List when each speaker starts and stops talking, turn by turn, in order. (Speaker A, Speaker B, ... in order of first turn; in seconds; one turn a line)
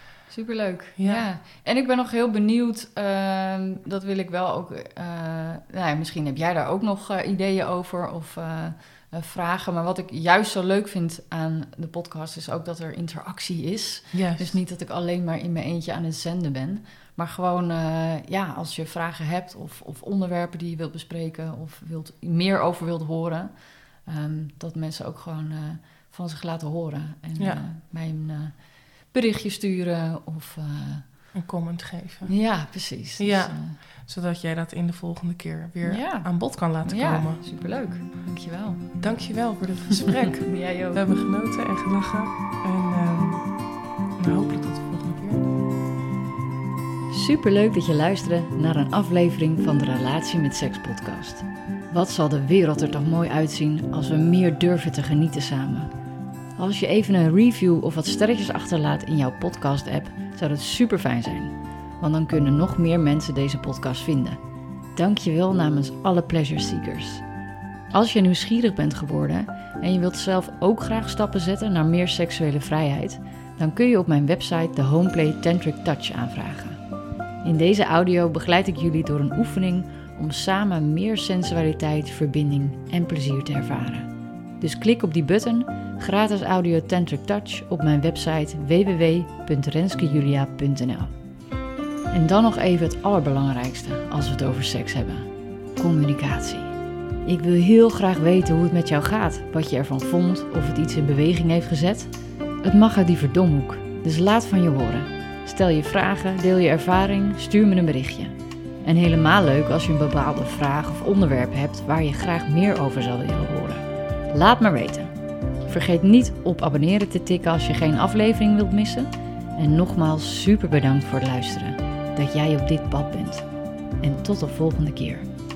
Speaker A: 0.3-31.2
Speaker B: 1.0-1.2
Speaker B: 14.1-14.5
Speaker B: 27.4-27.6
Speaker B: 31.3-37.4
Speaker A: 32.3-33.8
Speaker A: 35.8-39.4
Speaker B: 39.0-43.6
Speaker A: 40.4-41.0
Speaker B: 44.2-45.4
Speaker A: 47.1-55.9
Speaker A: 56.6-64.4
Speaker A: 65.0-67.2
Speaker A: 67.9-76.8
Speaker A: 77.4-91.1
Speaker A: 92.1-102.1
Speaker A: 102.6-115.1
Speaker A: 115.7-123.5
Speaker A: 124.0-125.3